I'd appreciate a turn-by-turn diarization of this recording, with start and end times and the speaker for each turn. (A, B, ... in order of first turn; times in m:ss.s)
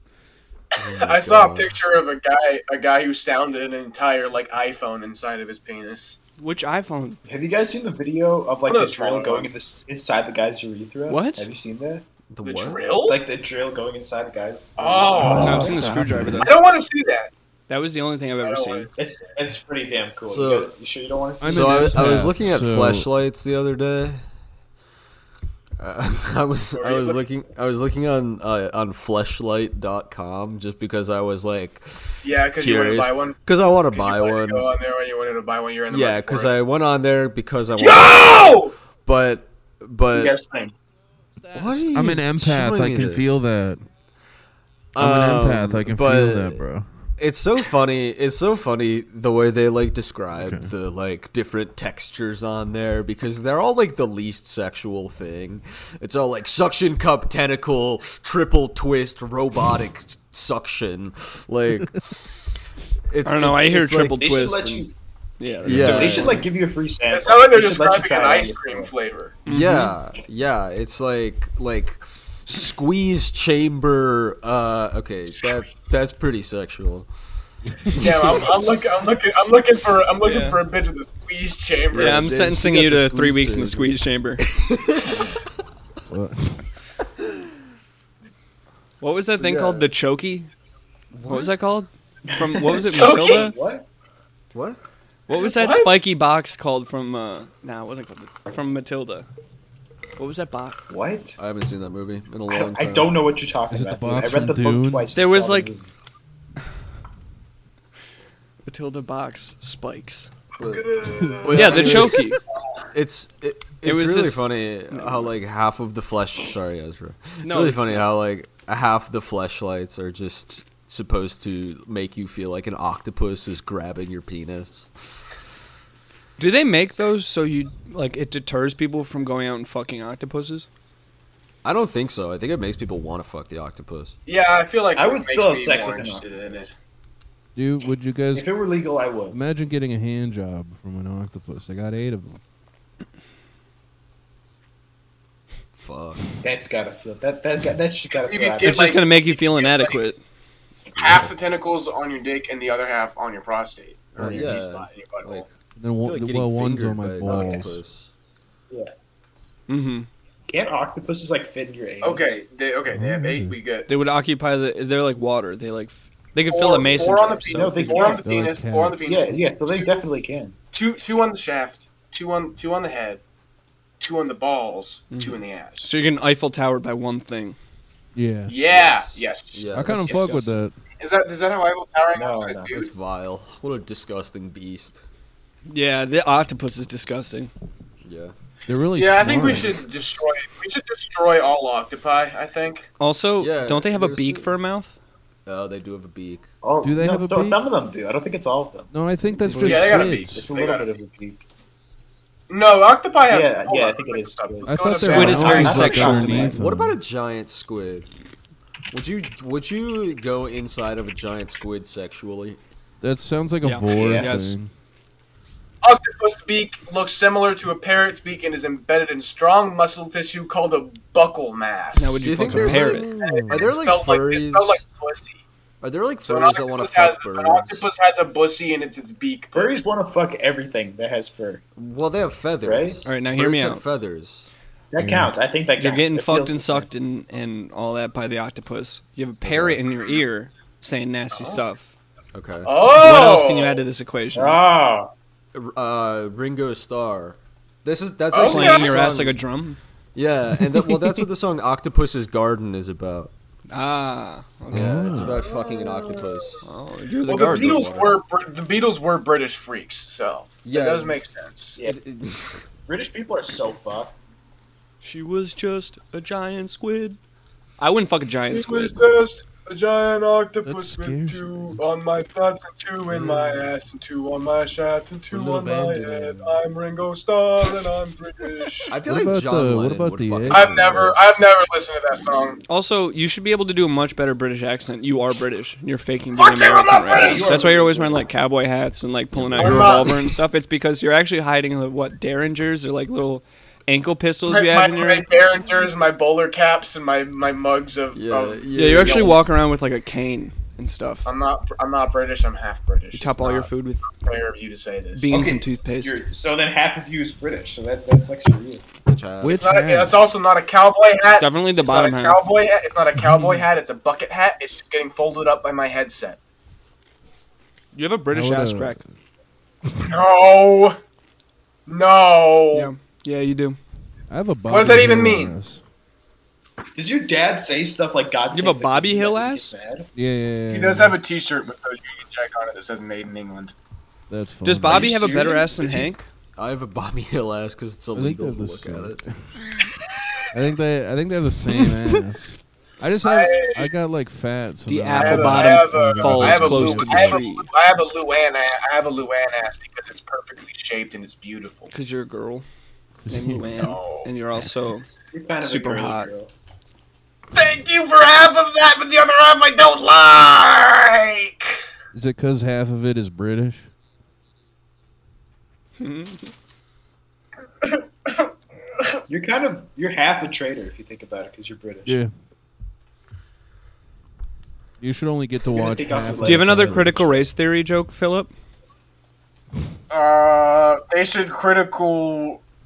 0:00.8-0:01.7 A
0:00.8-0:06.2 B
0:06.4-0:07.2 C
0:07.2-0:12.0 D
0:08.7-0:09.5 B
0:11.1-0:11.5 C
0:12.3-0:12.8 A
0:12.4-0:13.2 B
0:13.1-0:16.1 D
0:14.8-0:15.8 B
0:15.2-0:16.5 E
0:15.4-0:16.6 C
0:16.4-0:17.3 B
0:17.7-0:18.9 C
0:18.4-0:18.9 B
0:19.0-0:22.3 D
0:20.3-0:20.7 A
0:21.4-0:23.1 E
0:21.4-0:24.2 A
0:25.8-0:34.7 A
0:26.8-0:27.2 B
0:32.2-0:33.4 B
0:33.9-0:36.5 B
0:35.9-0:40.4 A
0:37.8-0:38.7 B
0:40.1-0:40.7 B
0:41.4-0:43.8 E
0:41.5-0:43.4 A
0:44.9-0:46.6 A
0:45.0-0:46.9 E
0:47.2-1:02.2 A
0:50.3-0:50.7 E
1:03.1-1:04.1 A
1:03.2-1:06.4 C
1:04.1-1:04.9 D
1:05.6-1:06.4 A
1:05.6-1:08.9 D
1:07.1-1:09.4 B
1:09.4-1:09.9 C
1:09.5-1:17.1 A
1:09.5-1:09.8 E
1:17.7-1:18.1 E
1:17.9-1:18.6 A
1:18.0-1:22.2 B
1:20.2-1:20.6 C
1:21.9-1:22.5 A
1:21.9-1:24.4 C
1:22.0-1:24.0 E
1:24.4-1:25.3 A
1:26.1-1:26.6 E
1:29.0-1:30.5 C
1:29.4-1:29.9 A
1:31.1-1:31.6 A
1:31.3-1:33.5 C
1:32.3-1:33.8 D
1:32.9-1:33.5 B
1:34.5-1:34.8 A
1:35.3-1:39.3 C
1:35.3-1:36.0 B
1:40.2-1:40.8 C
1:40.9-1:41.4 D
1:41.4-1:43.2 A
1:42.5-1:45.9 D
1:43.7-1:45.1 E
1:45.1-1:45.7 C
1:48.6-1:50.3 C
1:50.6-1:52.3 A
1:50.6-1:52.0 D
1:51.2-1:51.7 E
1:51.5-1:52.4 C
1:52.9-2:05.2 A
1:53.8-1:55.3 C
1:57.4-1:58.1 C
2:06.4-2:10.7 C
2:11.6-2:14.1 A
2:14.2-2:16.7 B
2:14.9-2:16.7 D
2:17.5-2:18.5 E
2:18.3-2:19.4 D
2:19.3-2:22.4 E
2:25.8-2:26.2 A
2:26.4-2:28.8 D
2:28.2-2:30.0 B
2:28.6-2:30.2 C
2:31.0-2:35.4 B
2:31.0-2:31.3 A
2:34.2-2:38.1 A
2:34.2-2:34.5 E
2:35.8-2:37.8 E
2:37.2-2:37.6 D
2:39.7-2:40.1 C
2:40.5-2:42.4 D
2:42.0-2:43.9 B
2:42.9-2:43.6 E
2:43.9-2:48.1 C
2:46.5-2:49.9 B
2:47.4-2:48.2 D
2:48.0-2:49.4 E
2:49.0-2:50.6 D
2:50.7-2:53.2 B
2:54.0-2:55.9 B
2:55.1-2:57.6 C
2:58.1-2:58.5 E
2:58.5-2:59.7 B
2:58.6-3:00.4 A
2:59.7-3:00.7 E
2:59.9-3:00.5 D
3:01.0-3:02.9 B
3:02.1-3:02.7 D
3:02.7-3:05.0 A
3:05.7-3:07.5 C
3:08.0-3:08.3 A
3:08.7-3:09.8 E
3:09.0-3:12.9 B
3:13.0-3:14.9 C
3:13.4-3:14.5 A
3:15.4-3:16.5 A
3:16.6-3:21.4 D
3:16.8-3:17.7 E
3:18.9-3:20.5 E
3:19.6-3:20.8 B
3:22.5-3:26.3 B
3:23.3-3:26.5 D
3:24.6-3:27.0 E
3:25.1-3:26.5 C
3:26.5-3:28.1 A
3:28.9-3:32.6 A
3:33.0-3:34.7 E
3:33.6-3:34.5 C
3:33.9-3:34.3 D
3:35.8-3:42.2 B
3:41.9-3:43.1 C
3:42.2-3:44.8 A
3:42.3-3:43.7 E
3:42.9-3:45.4 B
3:45.8-3:47.9 A
3:46.2-3:49.8 B
3:49.5-3:51.6 D
3:51.8-3:54.5 A
3:52.6-3:53.0 D
3:53.0-3:53.8 C
3:54.9-3:56.9 D
3:55.0-3:55.3 E
3:55.8-4:01.9 C
3:59.4-3:59.8 A
4:01.3-4:01.6 B
4:02.3-4:02.7 A
4:02.6-4:03.8 B
4:02.9-4:04.6 C
4:04.3-4:05.1 D
4:05.5-4:09.4 A
4:08.3-4:09.1 B
4:08.4-4:09.8 C
4:10.1-4:13.3 A
4:13.7-4:15.2 C
4:14.7-4:15.4 E
4:14.7-4:16.6 A
4:15.1-4:16.6 B
4:16.6-4:17.9 C
4:17.2-4:21.8 B
4:17.3-4:18.2 A
4:20.6-4:21.2 A
4:21.8-4:22.6 A
4:22.9-4:24.1 D
4:25.0-4:27.2 C
4:27.8-4:29.0 C
4:28.5-4:38.9 B
4:30.6-4:31.8 E
4:33.1-4:33.6 A
4:35.3-4:36.6 E
4:38.9-4:41.2 A
4:39.0-4:40.8 E
4:40.5-4:42.6 B
4:42.7-4:55.3 C
4:46.3-4:47.6 B
4:47.1-4:48.3 D
4:49.3-4:50.1 A
4:49.6-4:50.4 B
4:54.5-4:59.4 B
4:58.1-4:59.4 A
4:58.7-5:01.3 C
5:01.2-5:05.4 B
5:03.1-5:04.1 C
5:05.1-5:06.2 C
5:05.3-5:08.8 D
5:09.0-5:09.6 A
5:09.4-5:10.2 E
5:09.5-5:16.4 B
5:11.3-5:12.5 C
5:13.2-5:13.6 E
5:17.9-5:19.0 C
5:18.3-5:19.0 E
5:20.0-5:21.0 B
5:21.9-5:22.9 B
5:22.7-5:23.8 C
5:24.3-5:25.8 E
5:24.7-5:25.5 B
5:27.0-5:30.1 D
5:28.5-5:29.7 C
5:30.1-5:31.2 E
5:30.7-5:33.7 B
5:34.3-5:35.2 E
5:34.6-5:36.2 C
5:34.9-5:36.1 D
5:36.6-5:39.2 A
5:38.1-5:39.8 E
5:40.5-5:47.4 E
5:43.2-5:43.9 B
5:44.8-5:47.7 C
5:45.1-5:51.9 B
5:51.9-5:52.6 C
5:53.2-5:53.7 E
5:53.3-5:55.0 C
5:53.8-5:54.3 B
5:55.3-5:56.5 D
5:55.6-5:56.3 C
5:57.5-6:01.8 B
6:02.1-6:03.9 E
6:06.0-6:06.5 C
6:09.3-6:12.2 D
6:12.0-6:12.3 E
6:15.0-6:17.2 E
6:15.6-6:17.2 D
6:16.4-6:18.5 C
6:20.1-6:22.6 B